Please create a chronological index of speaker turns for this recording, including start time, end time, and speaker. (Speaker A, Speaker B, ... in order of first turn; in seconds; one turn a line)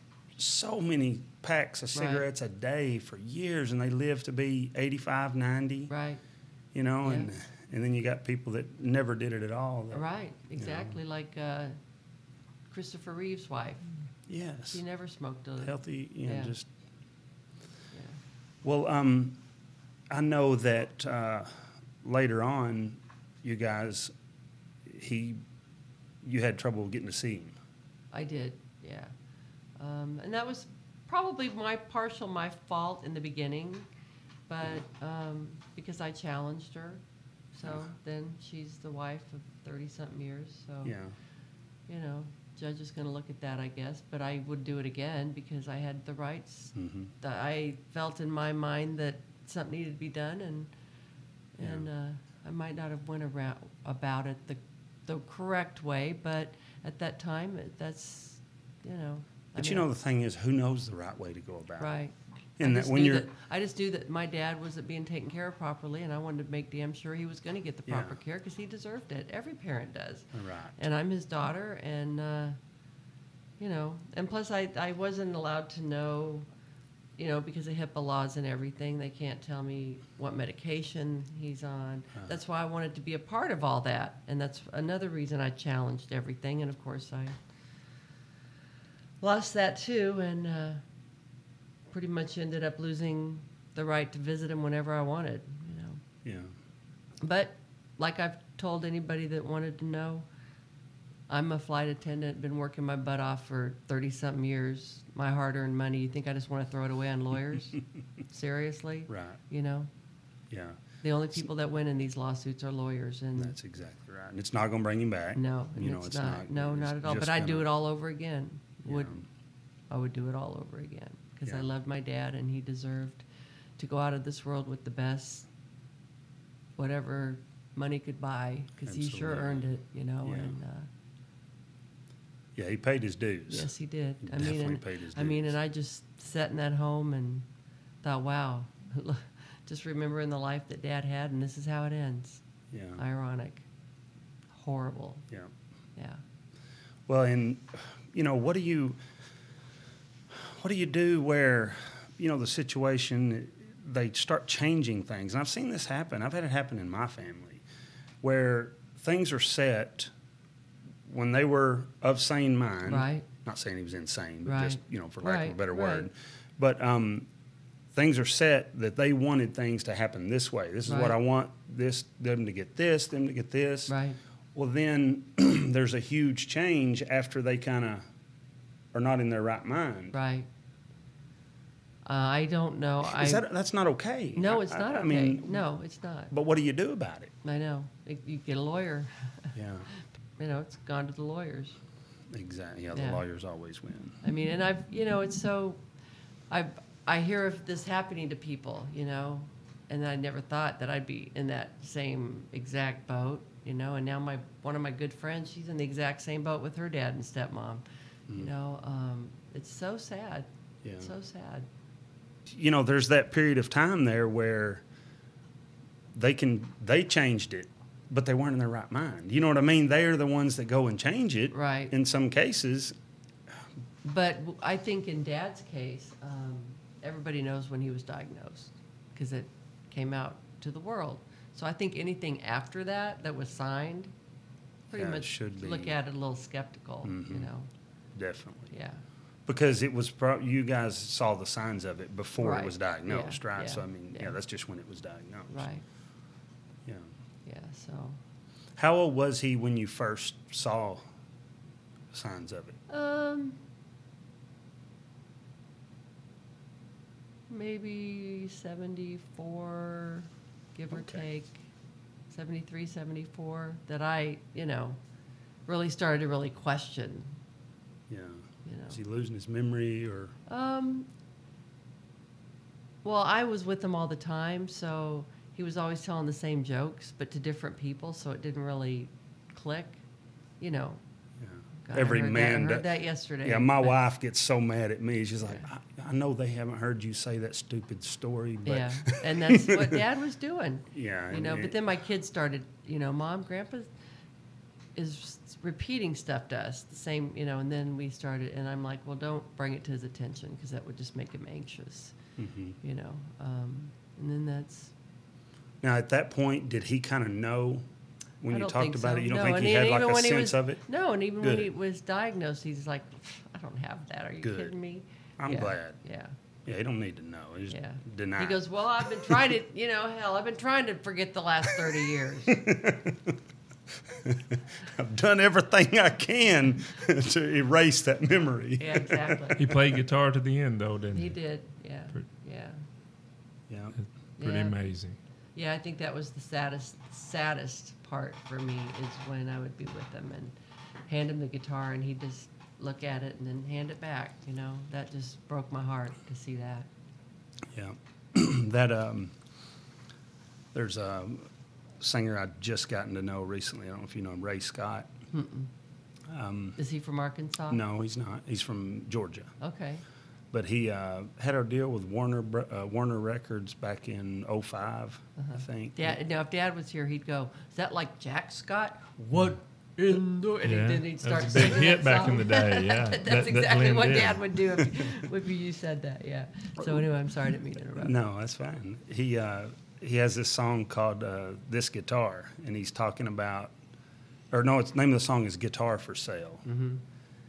Speaker A: 0.4-5.9
Speaker B: 1.9-2.3
Speaker B: 5.9-6.2
Speaker A: 6.7-11.0
Speaker B: 7.0-7.3
Speaker B: 9.9-11.8
Speaker B: 12.7-13.8
Speaker A: 14.3-14.8
Speaker B: 14.7-16.6
Speaker A: 15.6-16.7
Speaker A: 18.6-19.4
Speaker A: 20.1-24.1
Speaker A: 24.9-25.4
Speaker A: 26.2-27.6
Speaker B: 28.1-29.1
Speaker B: 29.8-33.9
Speaker B: 34.5-37.0
Speaker B: 37.5-41.0
Speaker A: 37.6-37.9
Speaker A: 40.9-41.1
Speaker B: 41.9-50.7
Speaker A: 46.8-47.1
Speaker B: 51.6-59.9
Speaker A: 51.6-51.9
Speaker A: 59.6-62.0
Speaker B: 61.8-72.6
Speaker A: 62.6-63.3
Speaker A: 67.9-68.2
Speaker A: 70.3-70.8
Speaker B: 73.6-76.5
Speaker B: 77.2-87.4
Speaker B: 89.2-90.8
Speaker B: 91.9-96.0
Speaker A: 96.2-96.5
Speaker B: 97.2-100.3
Speaker B: 101.3-109.9
Speaker A: 109.1-109.4
Speaker A: 110.5-110.8
Speaker B: 111.0-113.5
Speaker A: 113.4-117.7
Speaker B: 115.3-119.1
Speaker A: 118.9-119.2
Speaker B: 119.9-123.2
Speaker B: 123.8-125.5
Speaker B: 126.8-130.9
Speaker A: 128.8-129.7
Speaker A: 130.2-130.6
Speaker A: 132.6-133.7
Speaker B: 133.5-137.5
Speaker A: 134.2-135.6
Speaker B: 138.0-142.4
Speaker A: 142.7-143.0
Speaker B: 143.0-143.7
Speaker B: 144.5-145.3
Speaker B: 146.0-146.2
Speaker A: 147.1-149.0
Speaker A: 150.3-157.6
Speaker A: 158.2-160.1
Speaker A: 161.1-167.3
Speaker B: 162.8-163.3
Speaker B: 164.5-166.1
Speaker A: 167.9-173.9
Speaker B: 170.9-171.2
Speaker B: 173.9-174.2
Speaker A: 174.6-178.1
Speaker A: 178.9-180.2
Speaker B: 180.1-180.5
Speaker B: 182.1-183.4
Speaker A: 183.0-185.6
Speaker B: 184.4-186.3
Speaker A: 186.3-187.3
Speaker B: 187.4-191.8
Speaker A: 189.6-189.9
Speaker A: 192.3-194.2
Speaker B: 192.9-193.2
Speaker B: 194.2-195.8
Speaker B: 196.5-207.8
Speaker B: 208.3-211.7
Speaker A: 210.8-211.1
Speaker A: 212.5-214.8
Speaker A: 216.1-222.9
Speaker B: 221.5-221.9
Speaker B: 224.0-234.1
Speaker B: 234.9-237.7
Speaker A: 234.9-236.0
Speaker A: 237.0-237.5
Speaker A: 238.2-238.7
Speaker B: 238.7-239.0
Speaker A: 239.5-245.7
Speaker B: 242.4-244.4
Speaker B: 245.5-245.8
Speaker A: 246.8-247.1
Speaker B: 247.5-248.2
Speaker A: 248.8-251.1
Speaker A: 252.1-252.8
Speaker B: 252.9-253.6
Speaker B: 257.5-261.6
Speaker A: 260.9-261.2
Speaker B: 262.3-265.0
Speaker B: 265.7-267.3
Speaker A: 268.1-270.4
Speaker B: 268.6-269.0
Speaker B: 270.5-271.1
Speaker B: 273.0-280.0
Speaker B: 280.6-281.0
Speaker A: 281.4-282.9
Speaker B: 281.9-284.0
Speaker A: 283.4-290.0
Speaker B: 288.6-293.9
Speaker A: 290.9-291.8
Speaker B: 295.0-302.1
Speaker A: 302.4-302.8
Speaker B: 302.8-304.9
Speaker A: 305.8-307.9
Speaker A: 308.4-310.8
Speaker B: 308.5-316.3
Speaker A: 311.4-311.7
Speaker A: 314.4-314.7
Speaker A: 315.4-316.0
Speaker A: 316.7-319.5
Speaker B: 317.7-322.7
Speaker A: 321.9-323.4
Speaker A: 324.1-329.8
Speaker B: 328.8-329.7
Speaker C: 329.6-331.4
Speaker B: 331.1-332.8
Speaker A: 333.7-333.9
Speaker B: 334.4-334.8
Speaker C: 334.4-335.2
Speaker B: 335.6-340.6
Speaker B: 341.1-346.9
Speaker A: 347.7-349.4
Speaker A: 350.7-351.5
Speaker A: 352.0-355.1
Speaker B: 355.3-355.7
Speaker A: 356.3-356.8
Speaker B: 356.8-357.8
Speaker A: 357.7-359.5
Speaker B: 359.6-360.0
Speaker A: 360.5-366.2
Speaker B: 365.4-378.1
Speaker A: 369.2-369.5
Speaker C: 370.6-374.8
Speaker A: 377.9-383.7
Speaker A: 384.5-386.6
Speaker B: 386.6-387.0